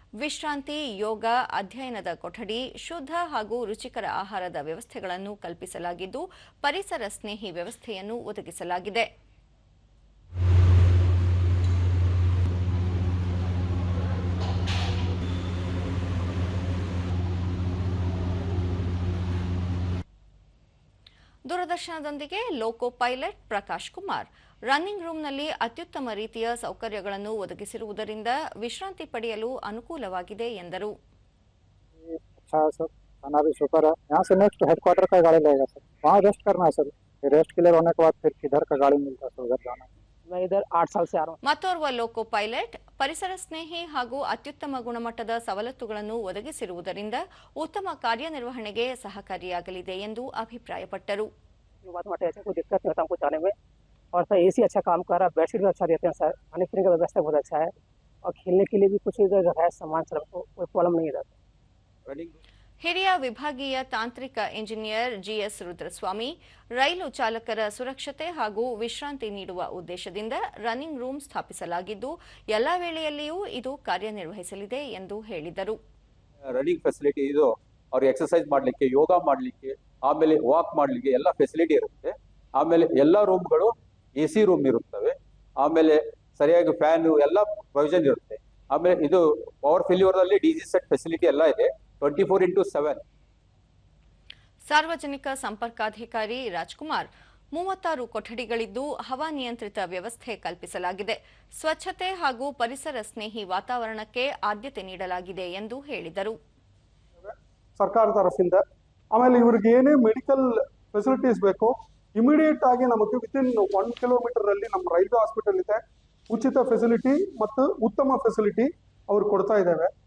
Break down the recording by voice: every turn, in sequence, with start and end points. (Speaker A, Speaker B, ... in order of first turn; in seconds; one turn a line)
Speaker A: 0.2-9.1
Speaker A: 21.5-30.9
Speaker B: 32.0-39.9
Speaker C: 40.3-41.4
Speaker A: 41.4-51.3
Speaker C: 51.9-53.5
Speaker C: 54.1-57.7
Speaker C: 58.2-61.3
Speaker D: 62.1-62.4
Speaker A: 62.8-75.8
Speaker D: 76.5-93.0
Speaker A: 94.7-106.4
Speaker E: 107.2-108.6
Speaker E: 109.1-119.9